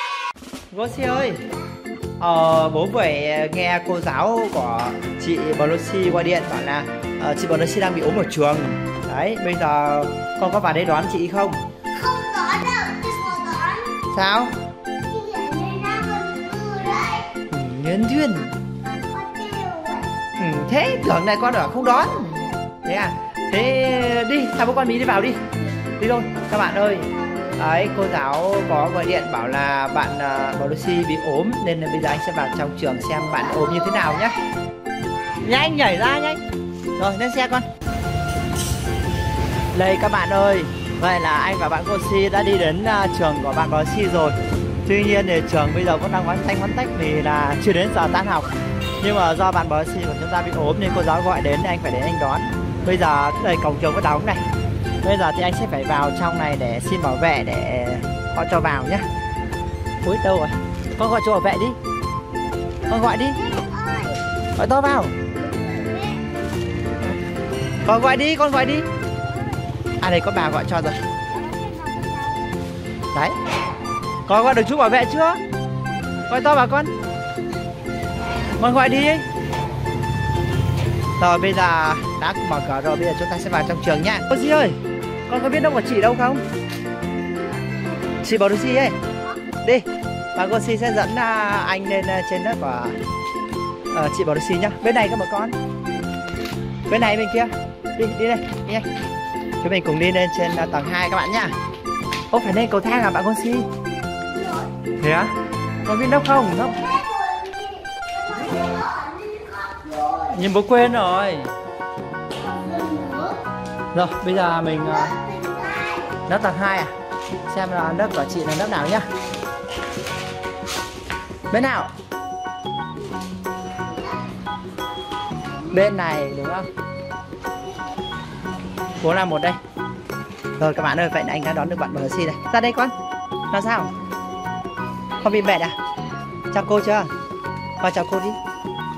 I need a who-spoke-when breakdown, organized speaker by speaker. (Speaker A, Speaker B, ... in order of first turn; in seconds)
Speaker A: 0.7-1.4, 2.2-11.6, 14.1-14.6, 17.5-18.6, 20.4-25.4, 26.0-34.4, 35.4-36.4, 37.0-37.6, 39.7-54.4, 55.0-59.0, 60.0-61.8, 62.9-63.4, 64.6-65.1, 67.8-68.9, 70.0-71.0, 74.3-75.4, 76.3-76.9, 78.6-79.2, 81.2-84.7, 85.3-86.4, 88.2-89.0, 89.6-92.9, 93.9-95.5, 96.9-98.8, 99.6-101.5, 102.3-103.7, 105.0-105.3, 105.8-106.8, 110.3-111.5, 113.9-115.1, 116.2-116.9, 117.5-119.0, 121.5-121.9, 125.7-126.7, 129.0-129.6, 130.6-132.9, 133.5-133.9, 135.2-135.8, 136.5-137.1, 137.8-138.4
Speaker B: 11.9-14.0, 15.0-17.3, 18.8-20.1, 21.7-22.6, 27.1-27.6, 33.4-34.4, 62.9-64.2, 65.3-66.2, 71.3-72.4, 104.3-104.7, 106.7-110.4, 112.3-113.4, 114.6-116.2